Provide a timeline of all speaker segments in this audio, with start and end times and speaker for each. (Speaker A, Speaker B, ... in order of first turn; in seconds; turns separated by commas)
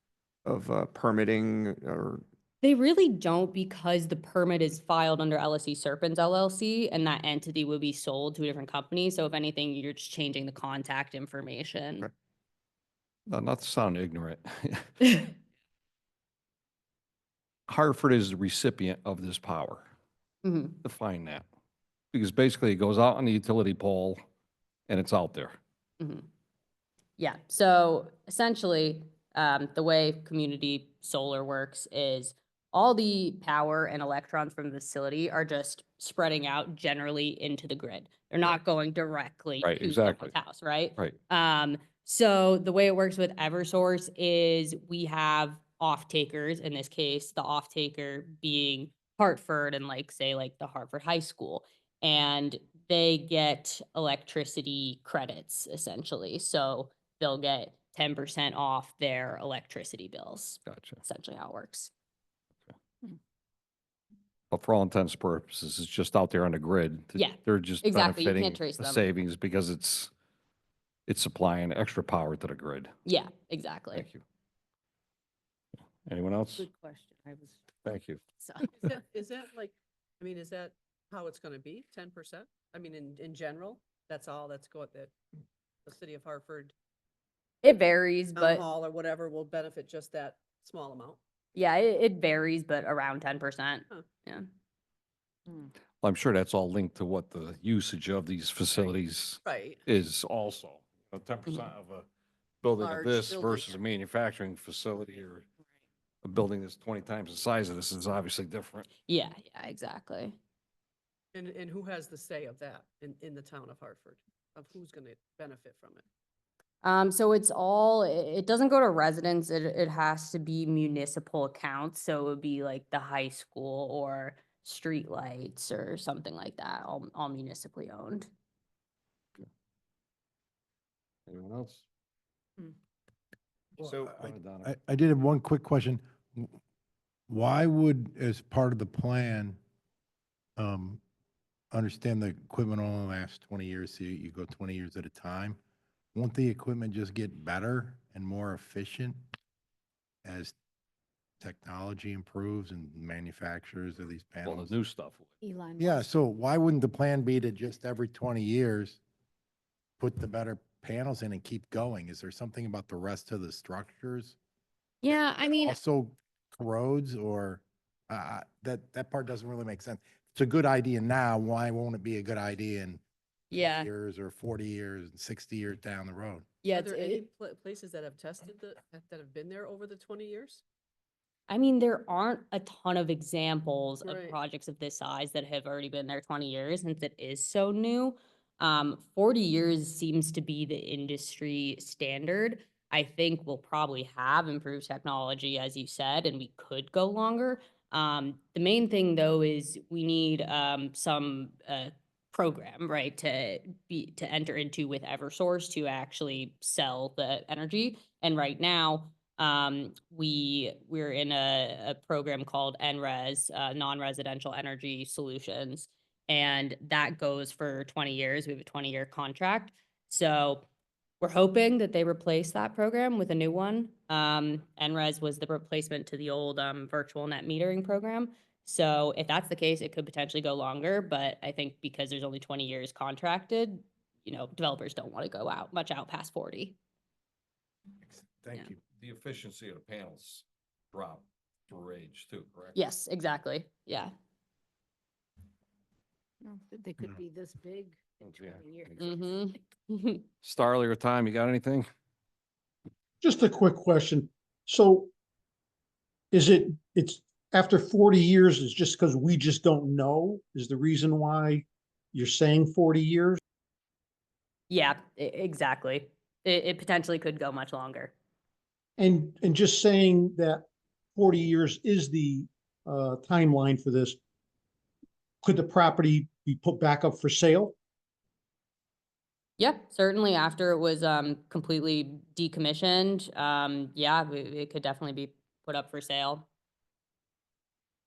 Speaker A: 0.4-2.2, Speaker B: 2.6-12.1, Speaker C: 13.3-15.2, Speaker C: 17.7-19.9, Speaker B: 20.4-20.8, Speaker C: 20.8-21.4, Speaker C: 22.1-24.2, Speaker C: 24.9-25.6, Speaker B: 26.0-26.2, Speaker B: 27.2-61.9, Speaker C: 39.6-40.3, Speaker C: 60.6-61.0, Speaker C: 64.5-70.1, Speaker B: 67.1-69.0, Speaker C: 71.1-72.9, Speaker B: 73.0-74.1, Speaker C: 73.9-74.2, Speaker C: 76.0-76.7, Speaker D: 76.6-77.6, Speaker C: 77.8-78.2, Speaker D: 78.4-78.7, Speaker E: 78.7-85.1, Speaker E: 85.8-86.7, Speaker B: 87.6-88.6, Speaker E: 88.3-91.2, Speaker B: 91.5-94.5, Speaker C: 96.0-102.1, Speaker E: 98.7-99.8, Speaker C: 102.6-105.5, Speaker E: 102.8-103.8, Speaker C: 106.2-108.9, Speaker B: 109.1-110.4, Speaker E: 111.3-116.0, Speaker B: 116.8-128.3, Speaker C: 131.3-131.8, Speaker A: 133.8-134.1, Speaker F: 133.9-136.5, Speaker C: 134.1-134.7, Speaker F: 137.3-139.6, Speaker F: 140.6-141.0, Speaker F: 141.7-145.6, Speaker F: 146.1-149.2, Speaker F: 150.2-150.5, Speaker F: 151.4-154.7, Speaker C: 154.4-155.3, Speaker D: 155.4-156.1, Speaker F: 155.8-159.0, Speaker F: 160.0-164.3, Speaker B: 165.0-165.8, Speaker F: 165.6-173.0, Speaker B: 173.5-173.9, Speaker F: 173.5-176.4, Speaker B: 176.6-177.2, Speaker E: 176.7-180.6, Speaker B: 181.5-220.7, Speaker E: 184.0-184.4, Speaker B: 221.2-236.8, Speaker F: 238.0-238.8, Speaker C: 239.0-242.8, Speaker B: 242.7-244.1, Speaker D: 246.4-249.2, Speaker C: 248.2-249.1, Speaker B: 249.0-250.2, Speaker C: 250.4-251.9, Speaker G: 253.2-255.1, Speaker G: 256.3-263.4, Speaker B: 264.7-268.1, Speaker G: 269.0-274.2, Speaker G: 275.4-277.7, Speaker B: 279.6-286.5